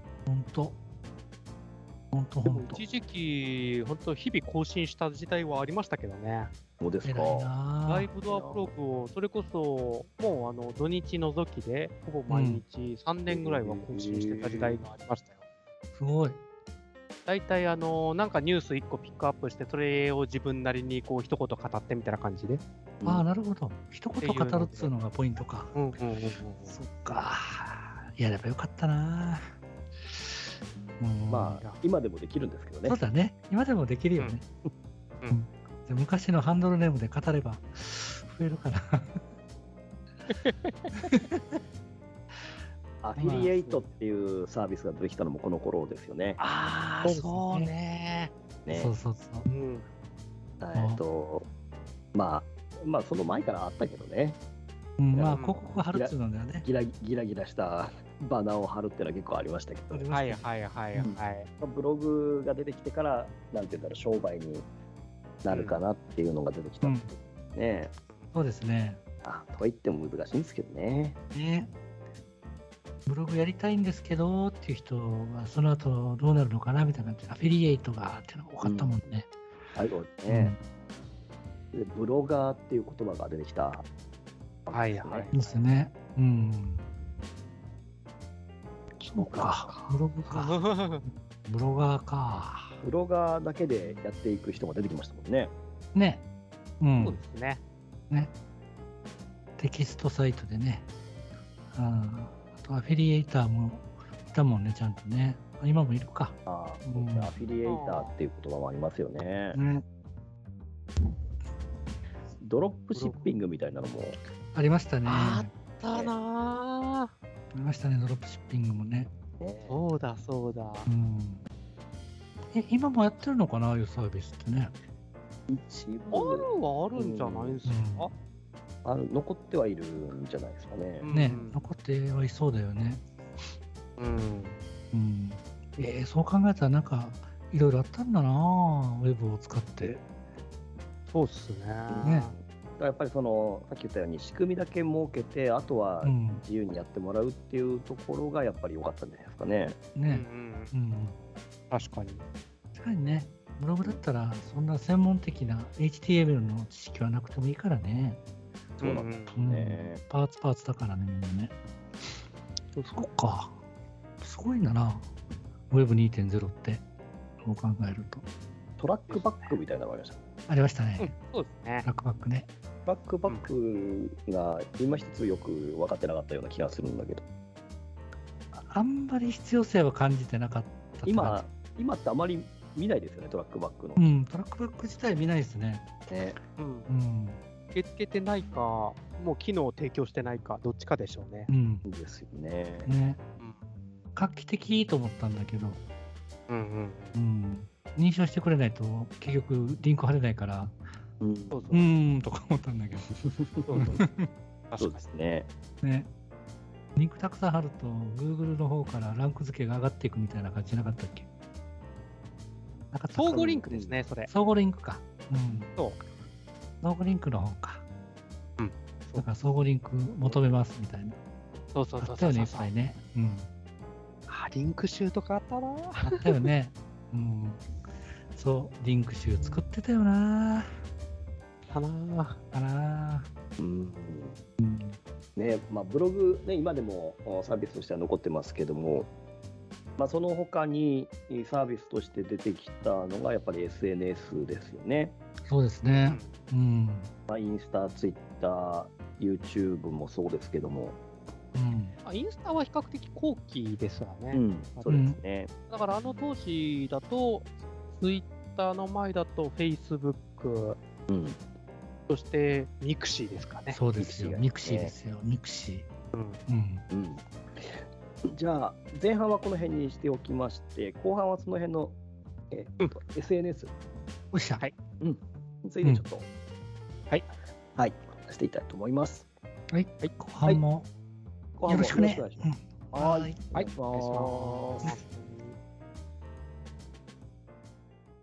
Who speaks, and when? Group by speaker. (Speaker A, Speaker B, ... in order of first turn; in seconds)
Speaker A: 0.3-0.8, 2.1-2.8, 7.0-8.1, 12.3-12.6, 15.9-16.4, 23.1-25.8, 26.7-29.4, 31.0-31.6, 32.8-34.4, 35.3-39.2, 40.9-41.5, 43.2-43.5, 47.0-47.7, 48.7-49.5, 50.8-51.0, 55.0-56.7, 59.9-60.5, 66.8-67.1, 68.3-69.0, 71.3-71.7, 73.1-79.3, 80.3-80.6, 85.3-86.8, 89.0-92.8, 95.9-96.2, 96.8-97.2, 99.6-100.9, 101.7-107.3, 109.5-109.8, 114.5-115.5, 117.5-119.1, 120.9-121.4, 122.5-124.7, 127.7-128.1, 131.1-133.0, 134.9-140.0, 142.0-142.3, 146.0-146.4, 149.9-151.2, 152.8-158.2, 159.3-161.5, 162.9-163.6, 164.2-165.1, 165.7-166.8, 167.4-168.2, 170.5-171.2, 171.8-172.5, 178.5-181.4, 184.0-186.0, 186.9-187.4, 191.5-191.8, 192.8-193.2, 194.2-195.8, 197.2-200.8, 201.7-203.2, 203.8-204.3, 205.8-206.1, 207.0-211.3, 212.9-213.6, 214.3-215.7, 216.8-217.8, 219.2-221.2, 222.0-223.5, 226.1-227.6, 228.3-230.7, 232.5-233.3, 234.6-235.0, 245.5-247.1, 251.5-251.9, 254.9-255.2, 263.7-265.9, 266.5-266.8, 274.3-274.6, 279.7-280.9, 281.7-283.4
Speaker B: 2.5-6.5, 7.8-15.4, 17.3-22.6, 24.2-24.9, 25.7-26.8, 40.3-41.0, 43.2-43.9, 46.4-48.3, 49.5-49.9, 55.3-55.6, 60.1-61.5, 65.5-65.8, 84.7-85.7, 90.3-91.0, 97.0-97.6, 107.6-108.1, 112.9-113.3, 115.0-117.1, 119.7-120.9, 126.1-128.1, 131.0-131.6, 134.0-134.6, 141.1-142.3, 150.1-150.7, 151.7-152.2, 158.8-159.3, 162.8-163.1, 169.1-169.6, 171.0-171.9, 186.6-186.9, 187.7-191.5, 196.5-197.2, 201.5-201.9, 203.7-204.0, 204.7-205.0, 213.2-214.3, 218.6-219.3, 221.7-222.7, 224.3-226.5, 231.7-232.4, 245.8-246.3, 252.0-255.0, 255.7-260.8, 262.1-263.8, 266.1-266.4, 283.5-285.6
Speaker C: 6.8-7.5, 8.3-8.7, 13.3-14.8, 23.0-23.3, 31.3-33.0, 43.0-46.4, 48.7-48.9, 50.6-51.5, 52.1-54.4, 55.1-60.1, 61.0-64.7, 65.4-67.9, 69.2-71.2, 78.6-79.0, 79.8-80.5, 81.7-83.9, 84.7-85.3, 89.2-89.9, 92.8-95.5, 106.5-109.6, 112.4-114.2, 119.4-119.8, 125.5-127.6, 128.8-131.1, 141.9-149.8, 158.8-160.0, 168.8-170.2, 172.9-177.2, 181.1-184.0, 186.1-186.4, 191.8-192.9, 201.2-201.7, 203.1-204.0, 204.8-205.5, 213.3-214.0, 233.6-234.4, 235.4-239.1, 240.0-245.2, 247.3-251.0, 254.3-255.5, 261.1-261.4, 264.0-264.9, 266.9-272.0, 272.5-273.7, 275.0-276.3, 277.8-279.3, 281.6-284.9